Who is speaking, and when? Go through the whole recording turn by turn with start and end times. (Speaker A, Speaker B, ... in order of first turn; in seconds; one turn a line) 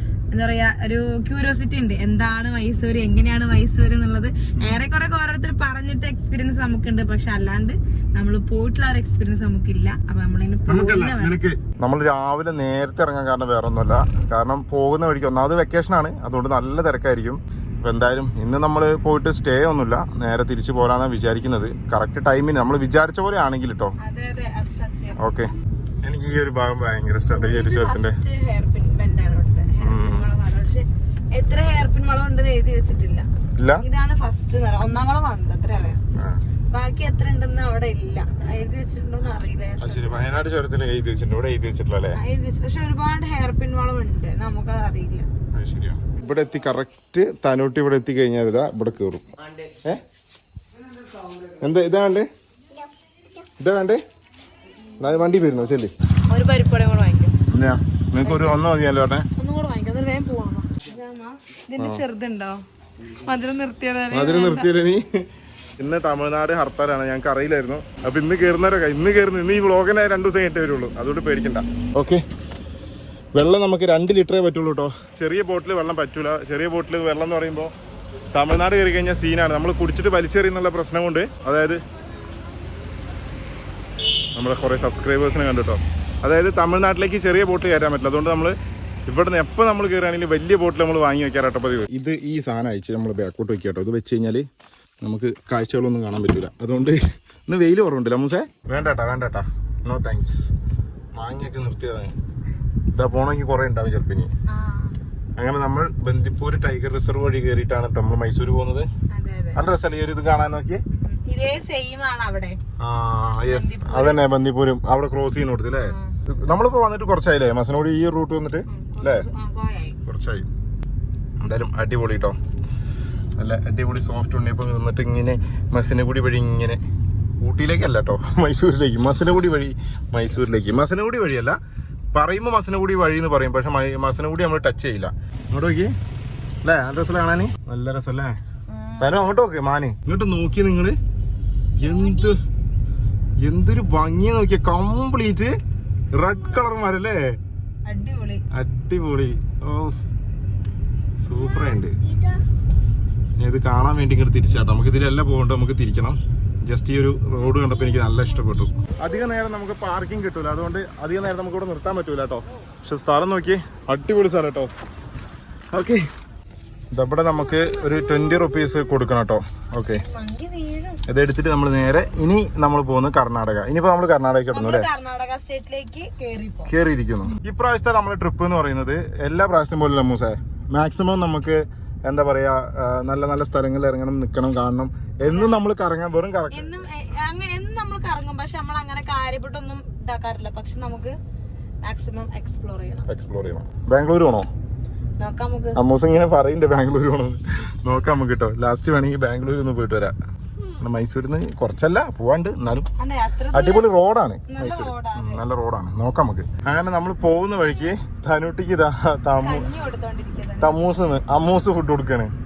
Speaker A: 0.3-11.4
Speaker B: 10.7-23.9
Speaker A: 24.0-25.2
Speaker B: 25.2-25.5
Speaker B: 26.0-28.2
Speaker A: 27.3-33.3
Speaker B: 29.8-30.3
Speaker B: 33.6-33.8
Speaker A: 33.8-36.0
Speaker B: 36.2-36.4
Speaker A: 36.7-40.3
Speaker B: 39.8-42.2
Speaker A: 42.1-45.3
Speaker B: 45.5-49.2
Speaker B: 51.6-52.3
Speaker B: 53.6-54.0
Speaker B: 55.0-55.9
Speaker A: 56.3-57.4
Speaker B: 57.5-59.3
Speaker A: 58.2-58.6
Speaker A: 59.4-64.7
Speaker B: 64.1-65.2
Speaker B: 65.8-72.2
Speaker B: 73.3-77.7
Speaker B: 78.3-81.8
Speaker B: 84.3-88.6
Speaker B: 89.1-94.5
Speaker B: 95.0-100.5
Speaker B: 101.2-102.2
Speaker B: 102.9-104.3
Speaker A: 104.5-105.0
Speaker B: 105.4-108.9
Speaker A: 109.1-109.6
Speaker B: 109.5-110.8
Speaker A: 110.9-112.6
Speaker B: 112.8-119.3
Speaker A: 113.5-114.2
Speaker A: 115.8-116.2
Speaker A: 118.7-120.0
Speaker B: 120.0-120.5
Speaker B: 121.4-122.4
Speaker B: 123.4-126.8
Speaker B: 127.4-131.6
Speaker B: 132.1-135.9
Speaker B: 136.6-138.4
Speaker A: 138.7-139.2
Speaker B: 139.0-141.0
Speaker B: 141.8-142.4
Speaker B: 143.4-145.6
Speaker B: 146.1-147.4
Speaker A: 147.8-148.4
Speaker B: 148.5-150.0
Speaker B: 151.2-152.0
Speaker B: 153.4-164.7
Speaker B: 165.7-166.1
Speaker B: 166.9-170.0
Speaker A: 169.9-171.0
Speaker B: 171.1-174.9
Speaker A: 174.5-176.7
Speaker B: 176.7-186.8
Speaker A: 185.2-185.6
Speaker A: 186.5-191.2
Speaker A: 191.8-193.1
Speaker B: 193.1-194.5
Speaker A: 195.2-195.8
Speaker B: 195.8-200.1
Speaker B: 200.8-202.9
Speaker A: 203.0-203.9
Speaker B: 203.5-209.7
Speaker A: 204.5-205.4
Speaker A: 209.4-211.0
Speaker B: 210.6-212.3